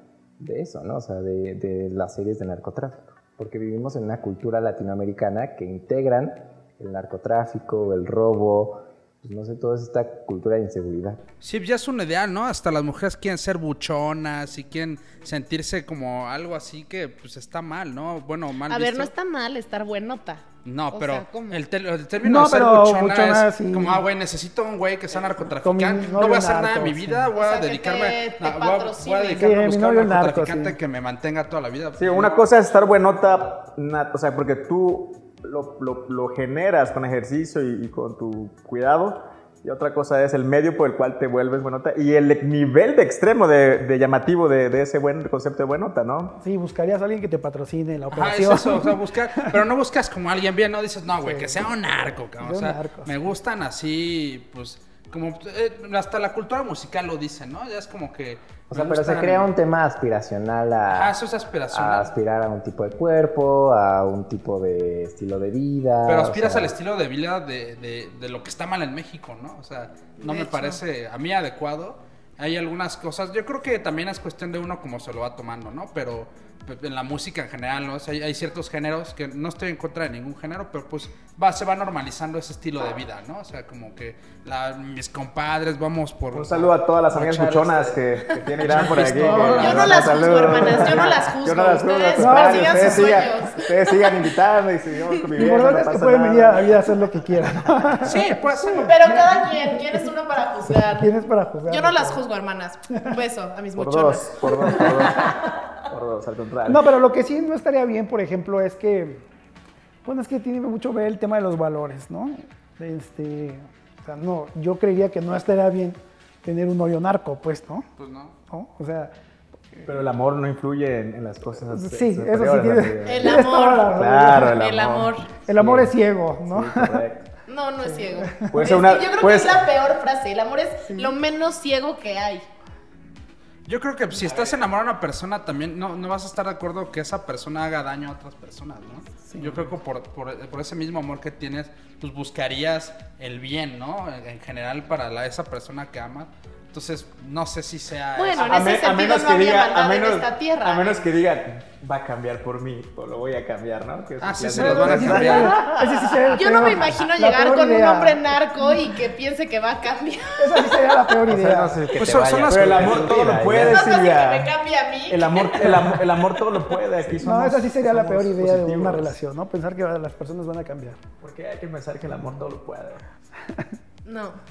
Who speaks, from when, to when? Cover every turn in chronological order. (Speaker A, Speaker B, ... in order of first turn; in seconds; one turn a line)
Speaker A: 0.4-11.2
Speaker B: 11.4-19.1
Speaker C: 18.7-21.6
Speaker B: 20.6-32.4
Speaker D: 22.2-24.0
Speaker D: 25.6-27.3
Speaker C: 27.3-29.6
Speaker D: 29.4-30.8
Speaker E: 32.0-46.4
Speaker D: 46.4-49.6
Speaker B: 48.1-59.5
Speaker D: 51.2-53.1
Speaker A: 58.7-61.2
Speaker B: 60.9-62.1
Speaker A: 61.7-66.7
Speaker B: 66.0-90.4
Speaker C: 70.2-70.8
Speaker E: 86.3-96.9
Speaker D: 89.1-89.8
Speaker C: 89.5-94.2
Speaker D: 90.4-91.1
Speaker D: 92.2-93.3
Speaker D: 95.3-100.1
Speaker B: 98.0-99.1
Speaker C: 98.8-101.1
Speaker D: 100.8-102.2
Speaker C: 101.7-105.5
Speaker E: 103.8-106.9
Speaker D: 104.8-105.1
Speaker D: 106.7-109.2
Speaker D: 110.0-117.8
Speaker B: 118.0-118.3
Speaker D: 118.5-119.1
Speaker E: 119.8-127.3
Speaker D: 121.6-124.6
Speaker C: 123.0-125.3
Speaker D: 125.4-127.0
Speaker C: 127.5-132.4
Speaker D: 127.9-128.7
Speaker E: 128.5-129.7
Speaker D: 130.9-131.2
Speaker B: 133.7-148.7
Speaker E: 134.2-134.6
Speaker D: 139.2-139.7
Speaker C: 148.2-151.1
Speaker E: 148.4-156.7
Speaker B: 154.2-155.6
Speaker D: 154.5-158.8
Speaker C: 156.3-161.1
Speaker D: 160.4-161.8
Speaker A: 161.2-163.9
Speaker B: 161.9-163.1
Speaker E: 162.5-164.5
Speaker C: 163.5-165.9
Speaker E: 165.1-169.2
Speaker D: 167.2-171.0
Speaker E: 171.2-173.1
Speaker C: 174.0-174.4